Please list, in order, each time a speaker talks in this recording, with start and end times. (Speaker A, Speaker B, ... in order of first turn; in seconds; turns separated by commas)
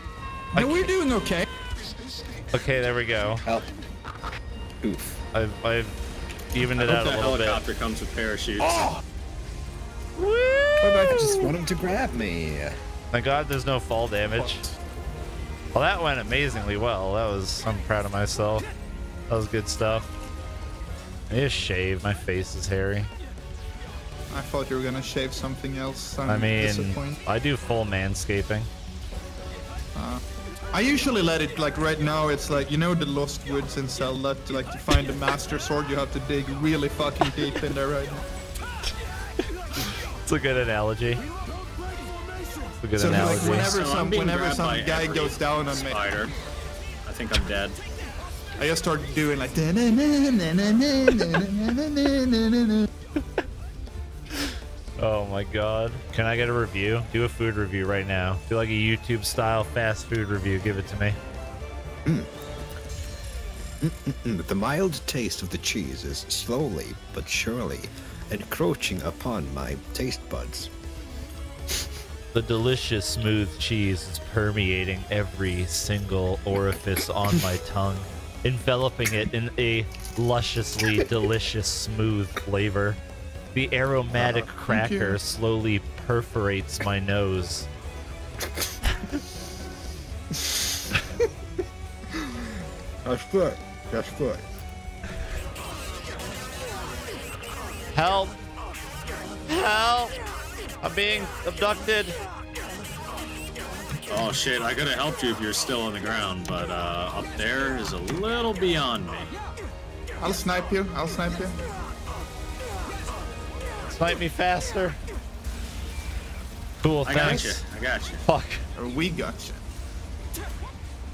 Speaker A: 0.5-0.9, Speaker B: 0.6-1.5, Speaker A: 2.5-3.4, Speaker C: 3.5-3.7, Speaker C: 4.8-5.2, Speaker A: 5.3-6.0, Speaker A: 6.5-7.6, Speaker D: 6.8-8.9, Speaker A: 10.2-11.5, Speaker B: 10.8-11.3, Speaker C: 11.1-12.8, Speaker A: 13.1-14.6, Speaker B: 14.3-14.7, Speaker A: 15.7-18.7, Speaker A: 19.3-20.1, Speaker A: 21.3-23.1, Speaker B: 24.3-27.2, Speaker A: 26.2-28.7, Speaker B: 29.9-30.2, Speaker B: 30.7-38.3, Speaker A: 40.2-41.2, Speaker A: 42.8-43.7, Speaker B: 43.0-46.0, Speaker D: 43.5-46.3, Speaker D: 47.1-47.8, Speaker B: 48.6-52.9, Speaker A: 55.0-61.2, Speaker C: 63.8-70.7, Speaker A: 72.3-83.0, Speaker A: 83.5-87.7, Speaker C: 84.2-84.4, Speaker B: 84.2-85.2, Speaker C: 93.0-94.4, Speaker A: 97.9-98.4, Speaker A: 99.5-100.2, Speaker A: 100.8-102.2, Speaker D: 104.1-109.3, Speaker B: 110.2-111.6, Speaker A: 113.9-115.0, Speaker A: 116.8-117.6, Speaker D: 117.0-118.2, Speaker A: 118.3-118.6, Speaker B: 118.8-119.6